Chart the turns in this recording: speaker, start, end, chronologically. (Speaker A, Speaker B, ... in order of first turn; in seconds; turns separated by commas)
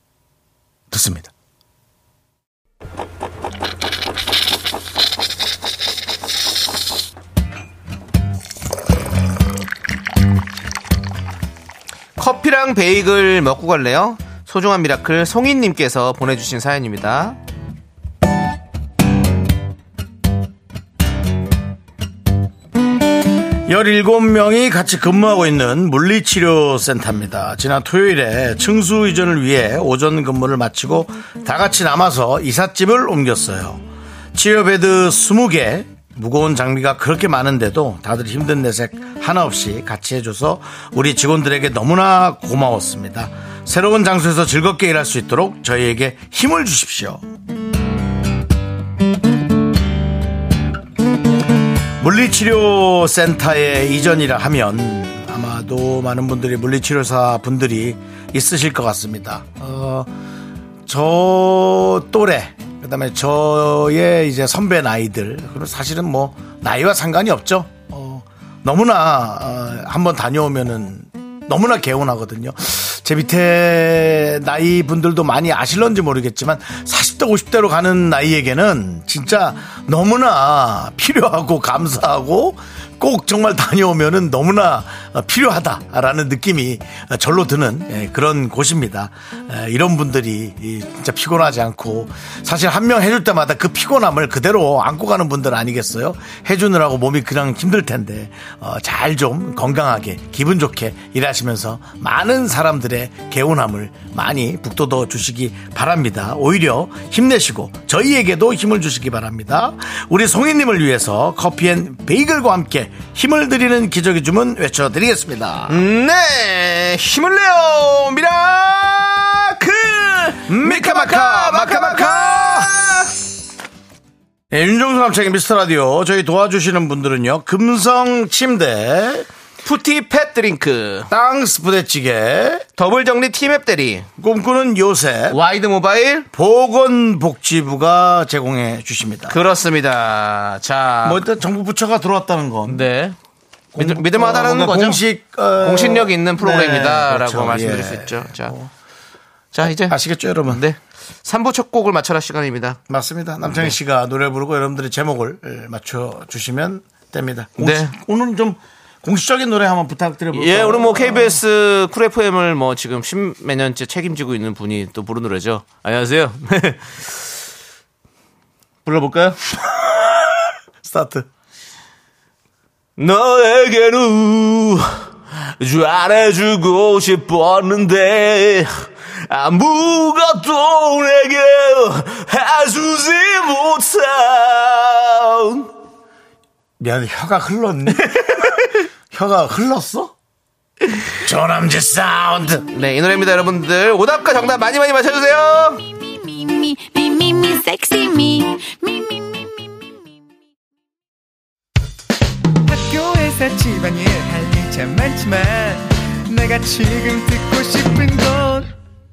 Speaker A: 0.9-1.3, Speaker B: 12.2-17.4, Speaker A: 23.6-33.8, Speaker A: 34.3-47.2, Speaker A: 52.0-60.1, Speaker A: 60.8-115.8, Speaker B: 115.7-123.1, Speaker A: 120.5-122.7, Speaker A: 124.5-129.3, Speaker B: 129.6-131.1, Speaker A: 131.1-132.6, Speaker B: 132.8-134.1, Speaker A: 134.2-135.4, Speaker B: 135.3-136.3, Speaker A: 136.3-139.4, Speaker B: 139.3-141.3, Speaker A: 141.0-142.8, Speaker B: 142.7-143.2, Speaker A: 143.7-148.7, Speaker B: 143.8-145.0, Speaker B: 145.6-148.5, Speaker B: 149.5-152.8, Speaker A: 149.6-150.6, Speaker A: 152.9-161.4, Speaker B: 153.4-153.7, Speaker B: 157.6-157.9, Speaker B: 160.3-167.3, Speaker B: 168.8-169.4, Speaker A: 169.6-171.3, Speaker B: 173.0-185.7, Speaker A: 186.8-190.1, Speaker A: 191.2-192.7, Speaker B: 192.7-195.8, Speaker C: 196.3-199.1, Speaker D: 202.6-208.7